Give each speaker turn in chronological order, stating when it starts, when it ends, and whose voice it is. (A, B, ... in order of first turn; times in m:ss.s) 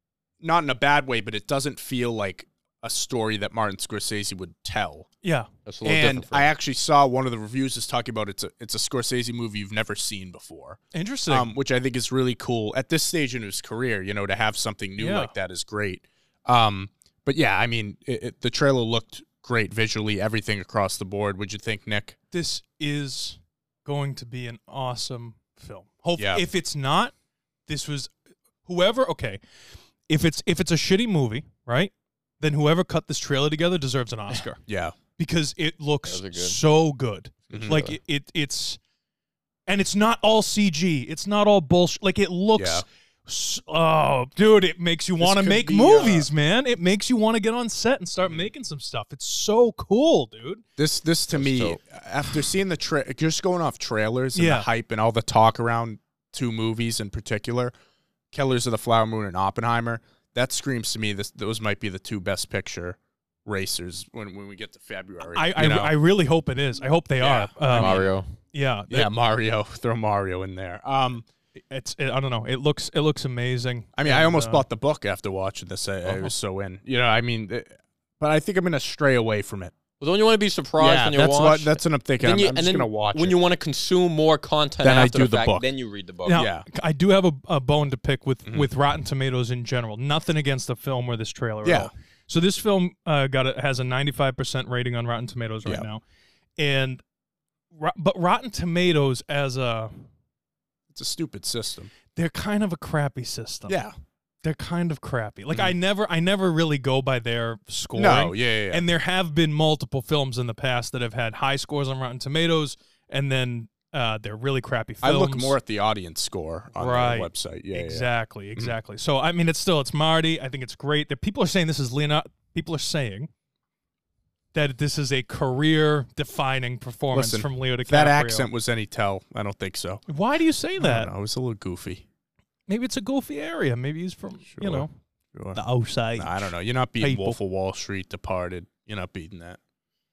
0:00.4-0:05.1 A
0:05.2-0:05.5 B
0:05.6-0:06.5 C
0:05.8-0:22.2 A
0:10.9-0:11.5 B
0:15.0-0:15.3 B
0:22.3-0:27.1 B
0:26.2-0:26.4 A
0:27.7-0:28.1 B
0:28.6-0:29.4 B
0:30.1-0:34.6 B
0:34.6-0:35.0 A
0:35.2-0:38.8 B
0:36.1-0:36.6 C
0:37.5-0:37.9 A
0:37.6-0:38.0 C
0:39.7-0:50.6 B
0:42.6-0:42.8 A
0:45.2-0:46.3 A
0:50.8-0:57.7 A
0:51.3-0:51.8 C
0:54.3-0:54.7 B
0:58.3-1:05.9 A
1:05.3-1:09.1 B
1:07.2-1:08.1 A
1:07.7-1:08.3 C
1:08.9-1:11.2 A
1:11.7-1:14.6 B
1:14.0-1:19.7 A
1:20.0-1:26.4 C
1:20.8-1:23.4 A
1:24.8-1:25.6 A
1:26.2-1:36.0 B
1:26.3-1:26.6 A
1:31.6-1:31.9 A
1:36.6-1:37.0 B
1:37.7-1:39.9 B
1:40.9-1:41.9 A
1:42.2-1:43.8 B
1:43.7-1:43.9 A
1:44.4-1:55.6 B
1:48.0-1:48.8 A
1:55.0-1:58.7 A
1:56.8-2:03.3 B
2:04.5-2:08.5 B
2:07.1-2:10.0 A
2:10.1-2:11.1 B
2:10.8-2:12.0 A
2:12.7-2:14.9 B
2:14.5-2:15.6 A
2:15.5-2:16.5 B
2:16.2-2:19.6 A
2:17.0-2:17.4 B